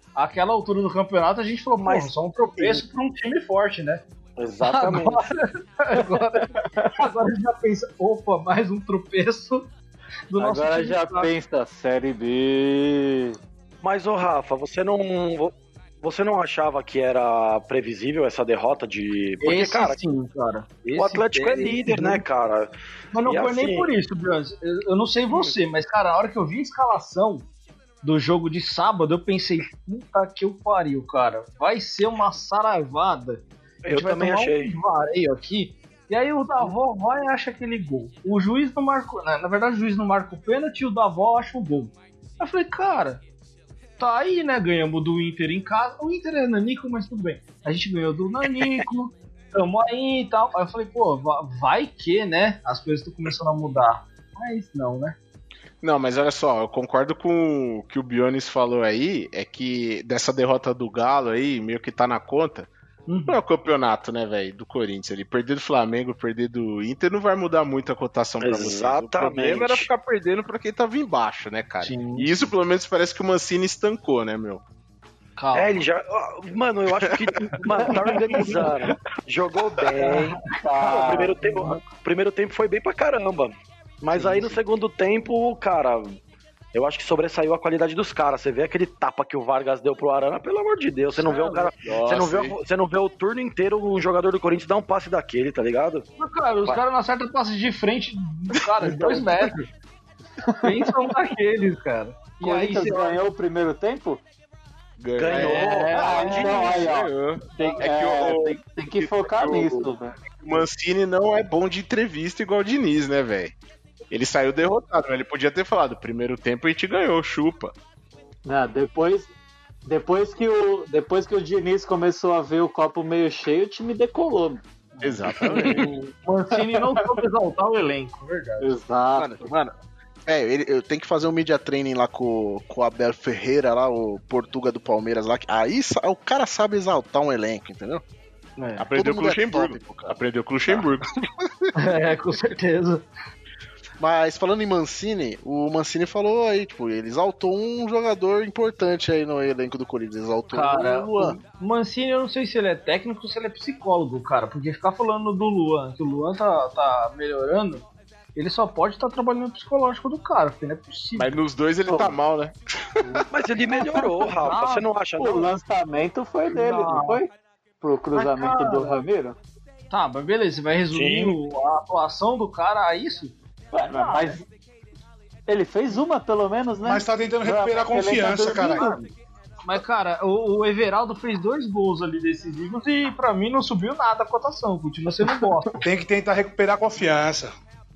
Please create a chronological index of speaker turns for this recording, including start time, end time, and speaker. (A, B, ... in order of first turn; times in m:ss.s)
0:00.2-0:04.0 A
0:01.8-0:02.8 B
0:04.4-0:05.3 B
0:04.6-0:09.7 A
0:10.3-0:11.3 A
0:10.4-0:13.4 C
0:13.8-0:20.0 B
0:19.4-0:22.2 A
0:20.9-0:23.9 B
0:23.1-0:27.5 A
0:28.0-0:43.2 A
0:33.8-0:34.8 B
0:44.0-0:55.2 A
0:55.8-1:02.7 D
1:03.1-1:03.4 A
1:03.3-1:14.6 D
1:08.4-1:09.9 B
1:11.8-1:12.3 A
1:15.4-1:15.8 A
1:15.5-1:26.1 B
1:16.9-1:17.6 D
1:18.2-1:18.9 D
1:18.4-1:18.6 A
1:20.0-1:21.9 A
1:20.6-1:21.4 C
1:24.2-1:24.5 A
1:26.7-1:36.0 B
1:31.2-1:31.7 A
1:31.8-1:32.6 D
1:36.2-1:39.7 A
1:38.9-1:39.2 B
1:40.6-1:43.2 A
1:42.4-1:44.2 C
1:45.0-1:49.9 D
1:45.2-1:46.8 B
1:45.3-1:46.7 A
1:45.9-1:50.2 C
1:47.6-1:47.8 A
1:50.4-1:53.5 D
1:54.1-1:57.7 D
1:58.4-1:59.3 C
1:59.8-2:04.6 C
2:04.9-2:09.7 A
2:05.0-2:05.9 D
2:08.6-2:09.4 C
2:10.2-2:18.0 E
2:18.6-2:18.9 A
2:18.8-2:21.1 D
2:18.9-2:20.8 E
2:21.8-2:23.1 A
2:24.0-2:31.4 E
2:30.5-2:41.4 A
2:41.2-2:43.2 D
2:43.3-2:45.5 B
2:44.3-2:44.9 A
2:45.2-2:47.3 C
2:46.5-2:47.2 A
2:47.8-2:49.4 C
2:48.1-2:49.0 A
2:49.9-2:54.4 A
2:50.9-2:51.4 B
2:53.7-2:54.4 C
2:55.5-2:59.0 C
2:56.8-2:58.9 F
2:58.8-2:59.1 A
2:59.6-3:05.9 A
3:05.8-3:07.5 F